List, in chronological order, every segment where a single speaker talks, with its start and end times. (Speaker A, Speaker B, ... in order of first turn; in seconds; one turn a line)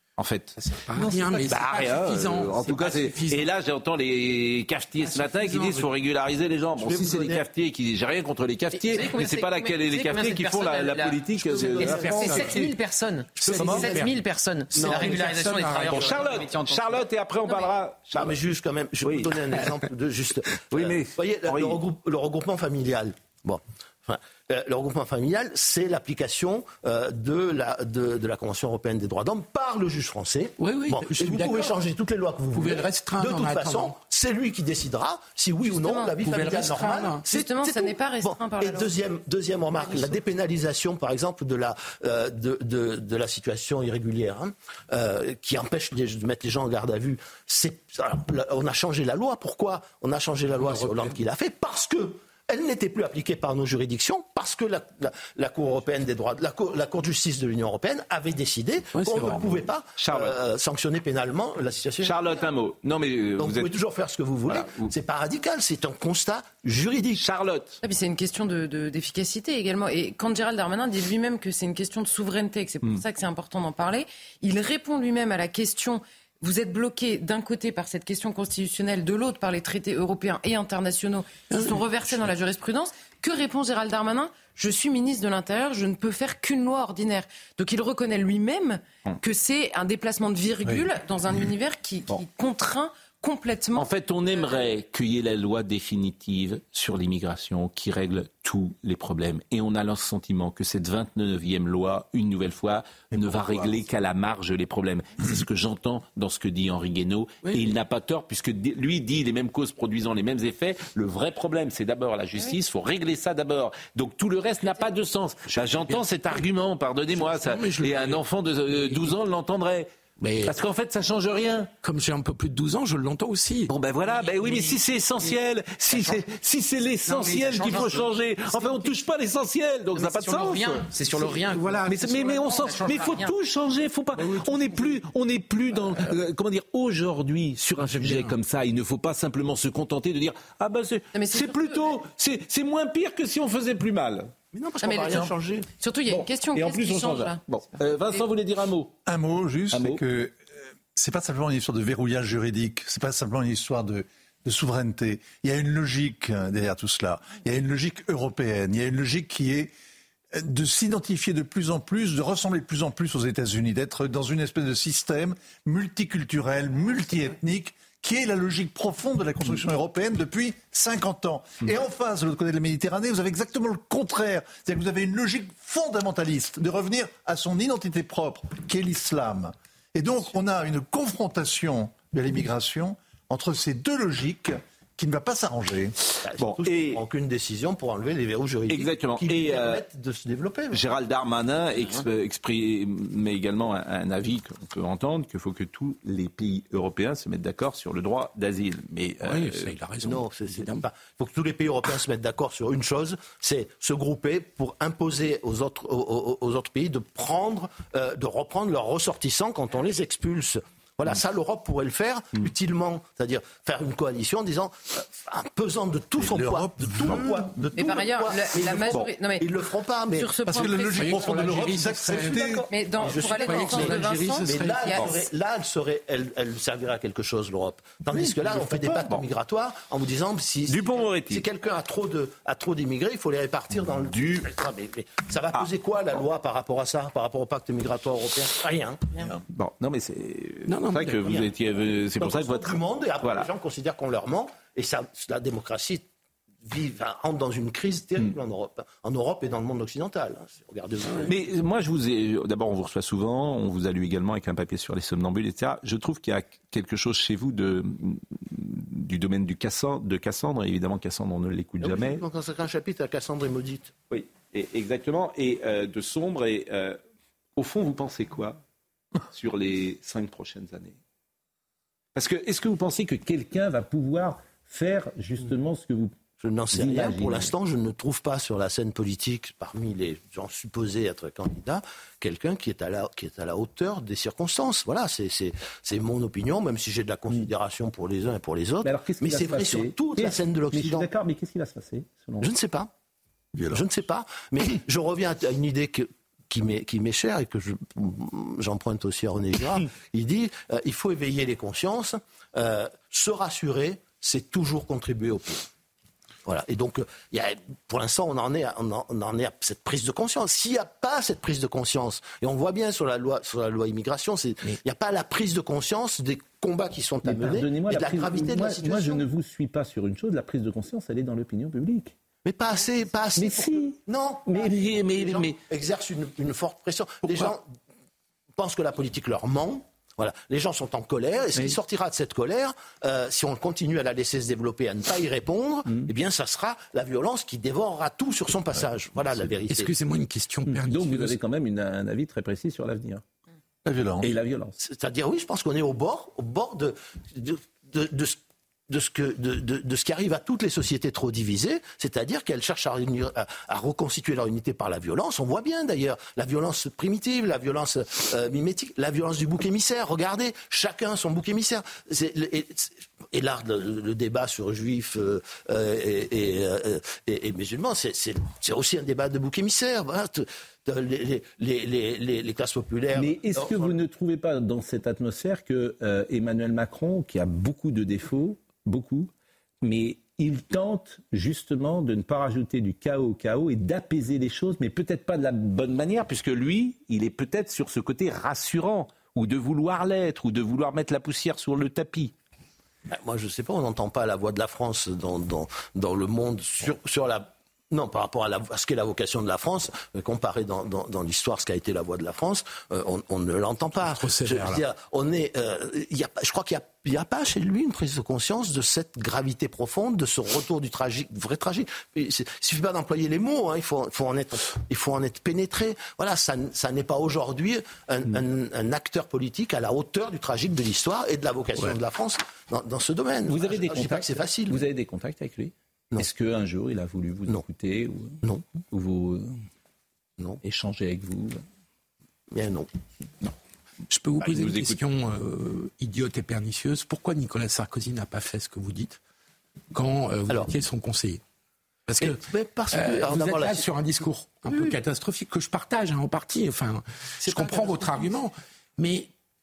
Speaker A: 0.2-12.6
Speaker B: 0.6-3.5
Speaker B: 5.0-5.9
Speaker C: 6.8-7.4
Speaker D: 8.8-17.1
Speaker B: 11.8-12.7
Speaker C: 12.1-12.4
Speaker B: 13.4-14.1
Speaker A: 13.5-13.9
Speaker C: 14.7-15.2
Speaker B: 14.7-16.2
Speaker A: 15.8-18.4
Speaker C: 18.1-62.4
Speaker A: 19.0-19.9
Speaker A: 20.7-21.8
Speaker B: 30.6-31.7
Speaker B: 32.5-34.0
Speaker E: 35.7-36.1
Speaker B: 36.2-37.2
Speaker E: 37.2-38.9
Speaker B: 50.6-51.1
Speaker B: 59.0-59.6
Speaker A: 60.0-60.4
Speaker A: 62.0-63.7
Speaker C: 63.4-67.2
Speaker A: 64.5-64.9
Speaker A: 67.2-67.8
Speaker E: 67.8-94.7
Speaker A: 93.7-119.9
Speaker F: 103.1-103.8
Speaker B: 115.6-116.4
Speaker B: 117.1-118.2
Speaker B: 120.2-120.5
Speaker A: 120.4-121.7
Speaker B: 121.8-124.7
Speaker A: 123.7-130.9
Speaker B: 125.9-126.2
Speaker B: 127.1-128.9
Speaker D: 129.9-133.3
Speaker A: 131.7-144.3
Speaker B: 134.2-135.0
Speaker B: 137.8-138.3
Speaker E: 141.1-142.0
Speaker C: 144.5-145.7
Speaker E: 144.8-148.2
Speaker A: 146.1-148.9
Speaker F: 149.1-150.4
Speaker A: 149.7-150.0
Speaker F: 150.9-159.7
Speaker F: 160.3-185.9
Speaker C: 186.2-190.9
Speaker A: 186.4-187.0
Speaker A: 188.7-189.8
Speaker A: 190.7-199.7
Speaker B: 199.2-200.8
Speaker C: 200.0-220.4
Speaker F: 216.2-217.9
Speaker E: 217.7-219.4
Speaker E: 220.2-221.7
Speaker F: 220.4-222.7
Speaker B: 220.9-225.2
Speaker E: 222.3-225.2
Speaker C: 223.0-239.3
Speaker A: 228.1-229.3
Speaker A: 230.7-231.4
Speaker A: 234.1-234.4
Speaker A: 239.5-243.5
Speaker B: 240.7-241.4
Speaker C: 241.2-241.5
Speaker C: 242.2-246.1
Speaker C: 246.6-251.3
Speaker A: 251.3-262.2
Speaker C: 261.8-263.9
Speaker A: 264.1-267.0
Speaker A: 267.6-268.6
Speaker A: 269.3-271.0
Speaker A: 272.1-276.1
Speaker C: 276.4-291.1
Speaker A: 276.7-277.5
Speaker A: 288.8-292.5
Speaker C: 292.4-292.9
Speaker F: 293.6-293.8
Speaker C: 293.7-305.7
Speaker C: 306.4-319.2
Speaker A: 317.2-322.1
Speaker C: 322.4-327.7
Speaker A: 323.4-325.6
Speaker C: 328.6-339.9
Speaker B: 339.6-341.4
Speaker A: 340.7-343.2
Speaker F: 343.9-344.3
Speaker A: 344.2-344.8
Speaker C: 344.8-348.4
Speaker C: 348.9-373.9
Speaker A: 373.1-379.3
Speaker A: 379.8-392.3
Speaker C: 393.1-424.8
Speaker B: 404.0-404.8
Speaker A: 423.5-429.6
Speaker C: 428.4-428.7
Speaker A: 430.6-431.6
Speaker C: 432.5-432.9
Speaker B: 434.1-439.2
Speaker A: 434.4-435.0
Speaker B: 439.9-441.4
Speaker B: 442.1-449.3
Speaker C: 442.2-443.9
Speaker C: 444.7-444.9
Speaker C: 447.4-448.3